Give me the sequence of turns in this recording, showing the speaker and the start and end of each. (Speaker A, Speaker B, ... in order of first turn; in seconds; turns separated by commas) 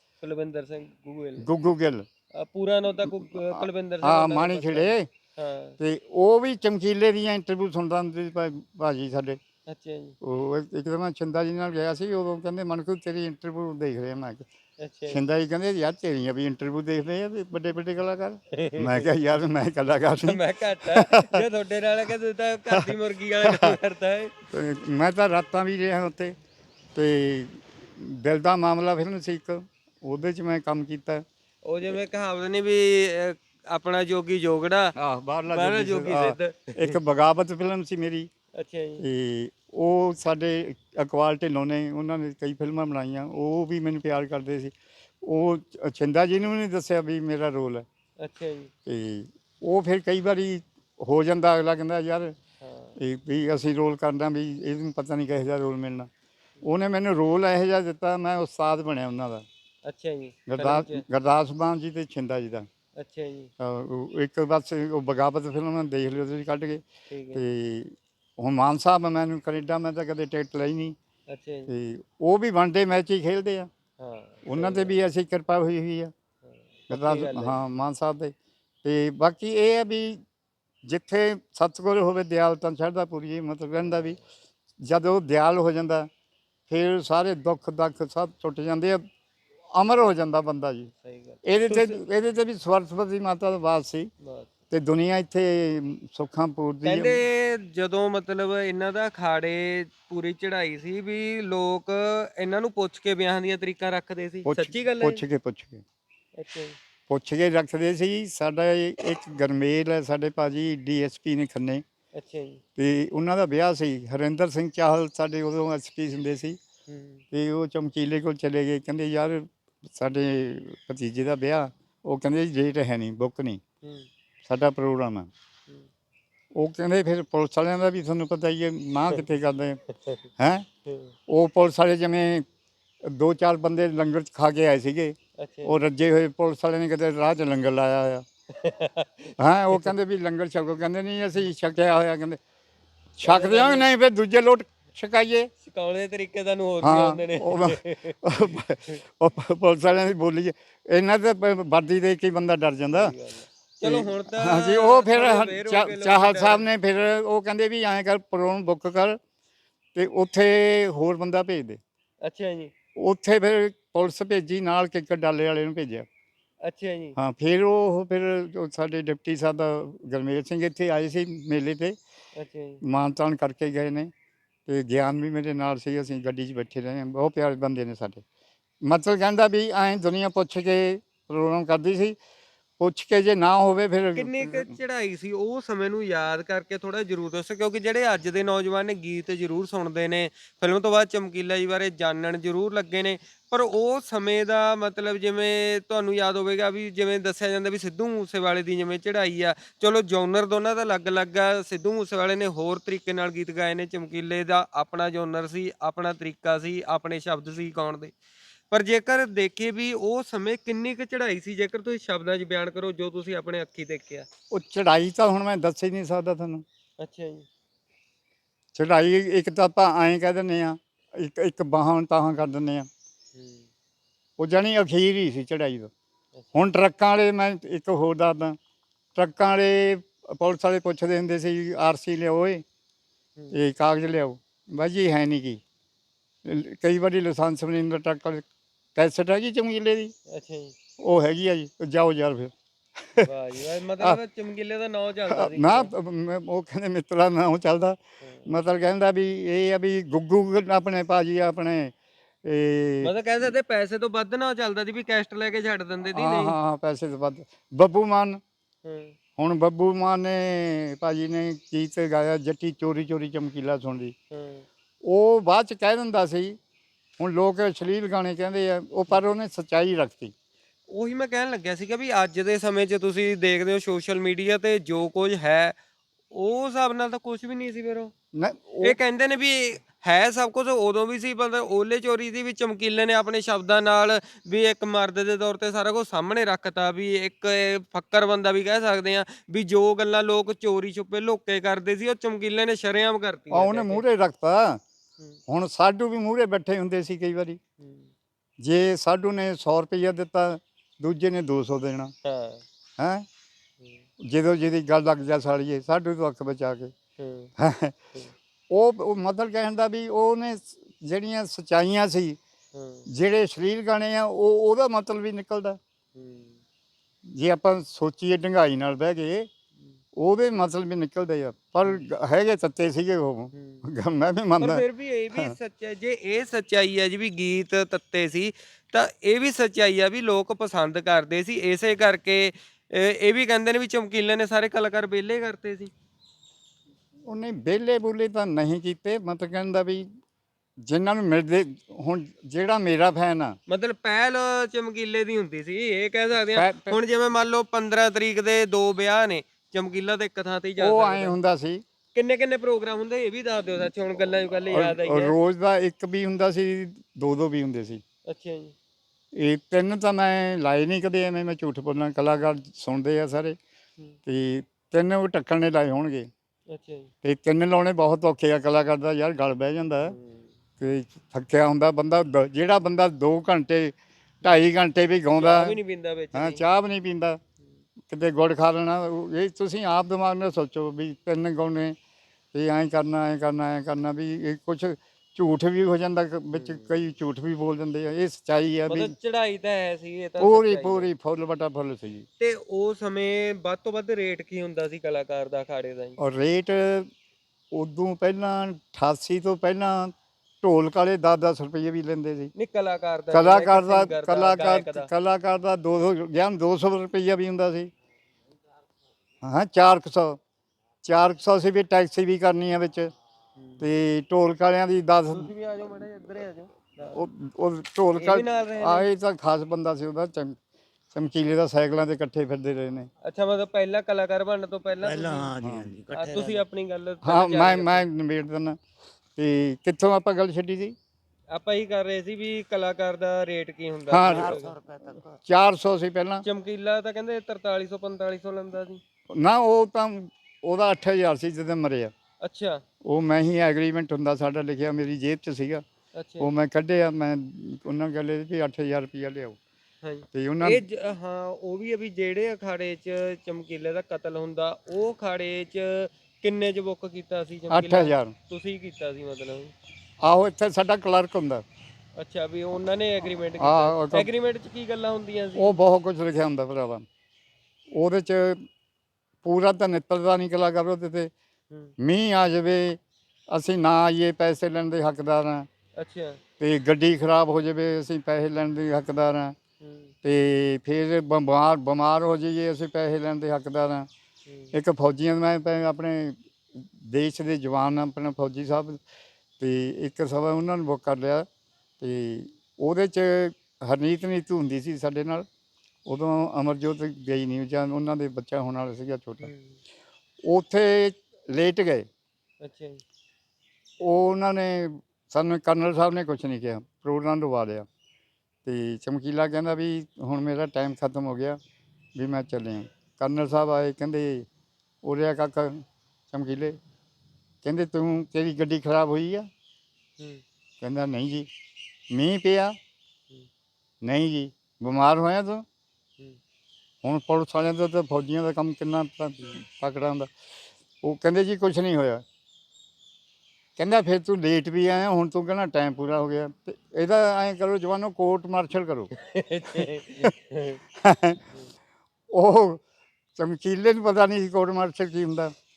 Speaker A: 0.2-1.5, Speaker B: 1.4-2.1, Speaker A: 2.3-5.8, Speaker B: 3.0-5.1, Speaker B: 5.8-9.4, Speaker A: 9.7-10.2, Speaker B: 10.2-14.5, Speaker A: 14.8-15.2, Speaker B: 15.1-21.4, Speaker A: 18.5-19.1, Speaker A: 20.2-24.3, Speaker B: 22.7-23.7, Speaker B: 24.5-26.4, Speaker B: 26.9-31.2, Speaker A: 31.6-34.9, Speaker B: 35.0-38.3, Speaker A: 35.5-37.0, Speaker A: 38.5-39.0, Speaker B: 39.0-47.9, Speaker A: 48.2-48.7, Speaker B: 48.9-52.3, Speaker A: 52.6-53.0, Speaker B: 53.0-56.1, Speaker B: 56.6-59.5, Speaker A: 59.8-61.0, Speaker B: 60.5-62.7, Speaker A: 63.0-63.5, Speaker B: 63.6-71.0, Speaker A: 67.1-67.5, Speaker A: 71.3-71.7, Speaker B: 71.7-73.7, Speaker A: 74.0-75.0, Speaker B: 74.5-76.1, Speaker A: 76.4-77.6, Speaker B: 76.9-78.3, Speaker B: 78.8-80.2, Speaker B: 80.8-84.2, Speaker B: 84.8-86.1, Speaker B: 86.7-89.0, Speaker B: 89.7-90.9, Speaker A: 91.0-92.0, Speaker B: 91.4-94.1, Speaker A: 94.2-94.5, Speaker B: 94.7-97.2, Speaker A: 96.8-105.2, Speaker B: 104.5-105.8, Speaker A: 106.3-106.8, Speaker B: 107.1-111.8, Speaker A: 112.1-112.6, Speaker B: 112.8-116.6, Speaker A: 116.9-117.2, Speaker B: 117.3-123.6, Speaker A: 123.8-124.1, Speaker B: 124.4-125.3, Speaker B: 126.5-129.8, Speaker A: 129.9-130.2, Speaker B: 130.4-130.7, Speaker A: 130.8-131.1, Speaker B: 131.3-132.4, Speaker B: 133.0-138.2, Speaker A: 135.4-135.8, Speaker A: 138.5-139.9, Speaker B: 139.4-142.4, Speaker B: 143.2-145.5, Speaker A: 143.2-143.9, Speaker A: 145.6-148.3, Speaker B: 146.8-153.2, Speaker A: 152.9-156.7, Speaker B: 153.8-159.2, Speaker B: 159.9-161.8, Speaker A: 162.2-162.7, Speaker B: 162.9-166.1, Speaker A: 166.6-167.2, Speaker B: 167.2-172.0, Speaker A: 172.3-172.8, Speaker B: 172.8-174.1, Speaker B: 174.7-178.2, Speaker B: 178.8-182.2, Speaker B: 182.8-184.8, Speaker A: 184.1-208.1, Speaker A: 208.7-214.3, Speaker B: 214.5-216.6, Speaker A: 217.0-217.5, Speaker B: 218.7-222.9, Speaker A: 223.3-223.7, Speaker B: 224.4-225.9, Speaker B: 226.5-228.6, Speaker B: 229.1-232.6, Speaker B: 233.5-235.6, Speaker B: 236.4-238.4, Speaker B: 238.9-240.1, Speaker A: 240.3-240.7, Speaker B: 241.0-243.3, Speaker A: 243.2-245.9, Speaker B: 245.3-253.1, Speaker A: 248.2-248.5, Speaker A: 253.0-256.6, Speaker B: 256.1-258.4, Speaker A: 258.8-259.1, Speaker B: 259.4-264.1, Speaker A: 264.3-264.6, Speaker B: 265.0-266.6, Speaker B: 267.2-270.3, Speaker A: 270.9-275.8, Speaker A: 276.3-278.1, Speaker B: 278.3-279.0, Speaker A: 278.8-294.0, Speaker B: 293.5-294.8, Speaker B: 295.5-297.6, Speaker A: 297.8-298.1, Speaker B: 298.6-302.1, Speaker A: 302.2-302.6, Speaker B: 303.0-303.2, Speaker B: 304.2-306.9, Speaker A: 307.2-307.5, Speaker B: 307.6-308.0, Speaker B: 308.7-312.4, Speaker A: 312.7-313.1, Speaker B: 313.1-315.8, Speaker A: 316.1-316.6, Speaker B: 317.2-319.5, Speaker B: 320.1-325.5, Speaker A: 323.5-323.8, Speaker A: 324.6-335.9, Speaker B: 337.2-340.1, Speaker B: 340.8-343.6, Speaker A: 343.7-351.4, Speaker B: 346.4-347.0, Speaker B: 350.8-351.8, Speaker A: 352.1-355.3, Speaker B: 354.7-358.0, Speaker A: 358.2-358.7, Speaker B: 359.3-363.6, Speaker B: 364.2-366.3, Speaker A: 366.7-367.1, Speaker B: 367.2-370.1, Speaker A: 370.1-370.5, Speaker B: 370.8-375.8, Speaker A: 375.3-376.6, Speaker B: 376.3-377.4, Speaker B: 378.1-382.0, Speaker B: 382.5-389.1, Speaker A: 386.5-387.0, Speaker A: 388.9-391.1, Speaker B: 390.4-392.2, Speaker A: 392.4-396.2, Speaker B: 396.2-397.1, Speaker B: 397.7-402.5, Speaker A: 402.5-405.1, Speaker B: 403.3-407.9, Speaker B: 409.4-410.4, Speaker B: 411.0-413.1, Speaker A: 413.6-413.9, Speaker B: 413.8-415.5, Speaker A: 415.3-417.2, Speaker B: 417.1-420.6, Speaker A: 418.1-419.1, Speaker B: 421.1-423.1, Speaker A: 423.2-425.5, Speaker C: 425.0-426.6, Speaker B: 425.6-425.9, Speaker A: 426.1-428.1, Speaker B: 427.2-428.8, Speaker B: 429.4-430.9, Speaker A: 431.5-434.7, Speaker B: 434.1-434.6, Speaker C: 434.2-435.4, Speaker B: 435.4-436.4, Speaker A: 436.4-439.0, Speaker B: 439.3-442.1, Speaker A: 442.4-442.8, Speaker B: 443.0-445.8, Speaker A: 446.1-446.5, Speaker B: 446.4-449.6, Speaker A: 450.0-459.7, Speaker B: 450.3-450.8, Speaker B: 457.7-458.3, Speaker B: 460.2-461.6, Speaker A: 462.2-465.8, Speaker B: 463.6-464.3, Speaker B: 465.6-467.1, Speaker B: 467.9-468.6, Speaker B: 469.4-471.3, Speaker B: 472.0-475.7, Speaker A: 476.0-476.4, Speaker B: 476.6-479.6, Speaker A: 479.8-480.1, Speaker B: 480.2-484.1, Speaker A: 484.5-484.7, Speaker B: 484.7-489.0, Speaker B: 489.6-491.5, Speaker B: 492.0-495.4, Speaker B: 496.1-499.5, Speaker A: 499.4-499.8, Speaker B: 500.4-502.1, Speaker A: 502.6-503.0, Speaker B: 504.0-507.9, Speaker B: 508.6-511.6, Speaker B: 512.1-514.5, Speaker B: 515.0-516.8, Speaker B: 517.6-519.5, Speaker B: 520.8-521.5, Speaker B: 522.1-522.8, Speaker B: 524.0-525.6, Speaker B: 527.0-530.3, Speaker B: 531.0-532.2, Speaker B: 533.8-539.1, Speaker A: 539.1-540.8, Speaker B: 539.7-540.3, Speaker B: 541.0-541.4, Speaker B: 542.3-542.8, Speaker B: 543.4-545.5